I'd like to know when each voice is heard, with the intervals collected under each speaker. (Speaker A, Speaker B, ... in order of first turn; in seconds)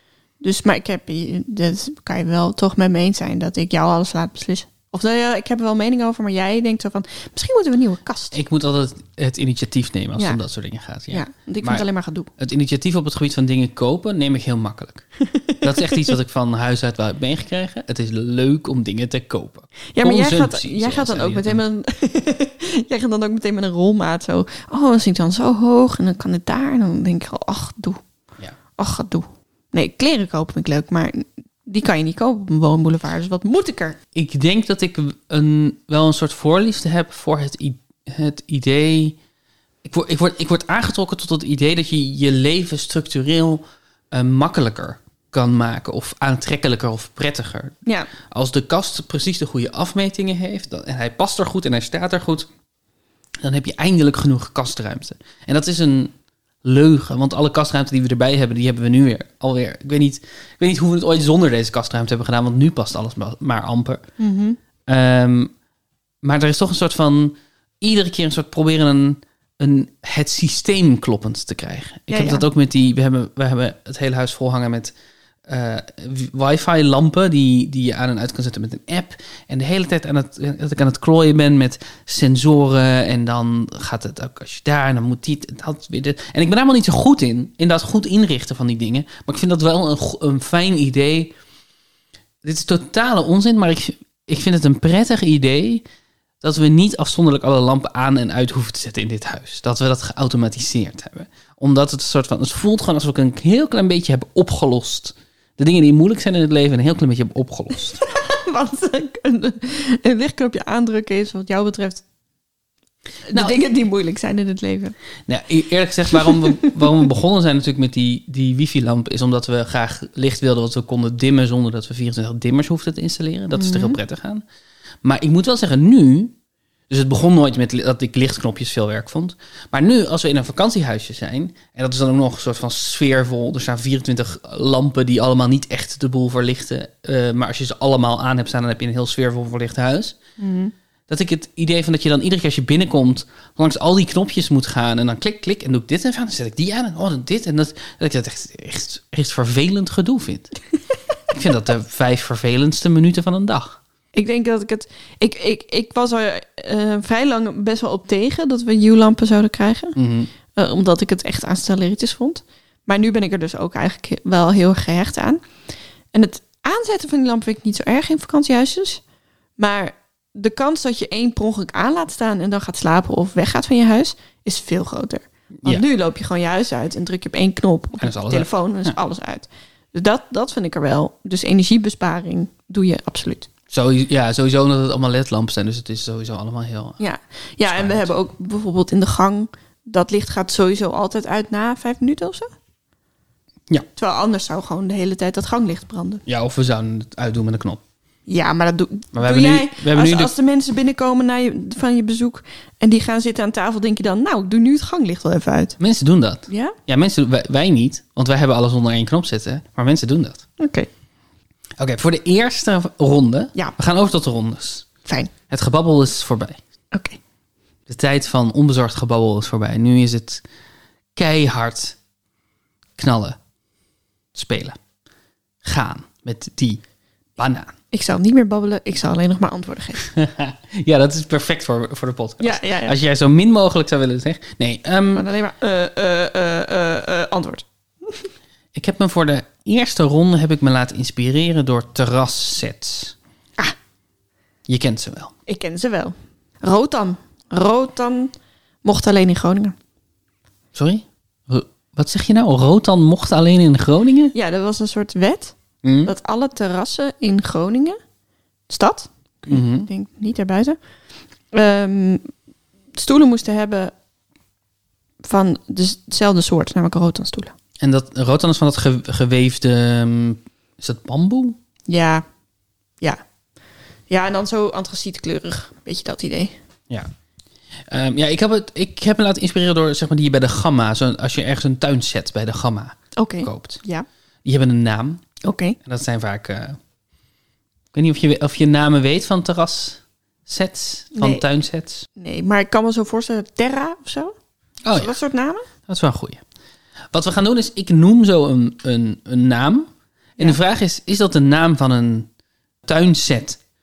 Speaker A: 0.4-8.4, 11.1-12.3, 15.2-16.0, 19.9-28.0, 28.8-34.0, 47.9-48.1, 64.2-64.6, 72.1-72.5, 108.0-112.0, 113.3-114.9, 116.2-116.7, 123.5-124.0, 140.4-140.7, 154.1-160.0, 160.5-165.4, 166.1-169.0, 169.6-183.5, 187.0-192.5, 193.9-196.2, 198.3-205.8, 206.5-206.8, 210.6-210.9, 215.0-215.3, 216.9-217.2, 227.9-230.1, 232.4-233.0, 235.1-238.2, 245.5-248.3, 248.8-249.7, 254.3-258.0, 258.7-260.8, 261.5-262.3, 262.9-263.9, 265.2-267.5, 271.9-272.2, 274.1-276.5, 283.1-284.1, 285.4-285.8, 291.1-291.4, 292.2-294.3, 294.9-295.7
Speaker B: 8.3-11.8, 12.4-15.0, 15.6-21.6, 34.1-39.2, 39.8-47.8, 48.3-52.5, 53.4-56.1, 56.6-64.0, 64.9-65.5, 66.2-74.9, 75.5-91.3, 92.4-95.8, 96.4-108.0, 113.3-113.6, 115.3-124.4, 125.0-126.3, 126.9-140.2, 141.1-150.5, 151.3-153.8, 159.9-160.3, 178.0-178.9, 183.7-187.0, 187.6-188.1, 196.2-197.8, 199.1-200.3, 205.8-210.4, 211.8-214.9, 215.5-216.6, 217.9-220.4, 221.1-222.0, 223.0-223.4, 224.3-224.8, 225.6-226.8, 227.4-227.7, 230.0-235.3, 238.7-243.1, 244.7-245.3, 250.7-254.3, 255.8-256.1, 259.5-259.9, 267.8-271.6, 277.9-283.8, 284.4-285.2, 285.8-286.8, 287.9-292.1, 294.8-295.2, 295.9-296.4, 297.1-299.9, 300.4-302.3, 302.8-303.6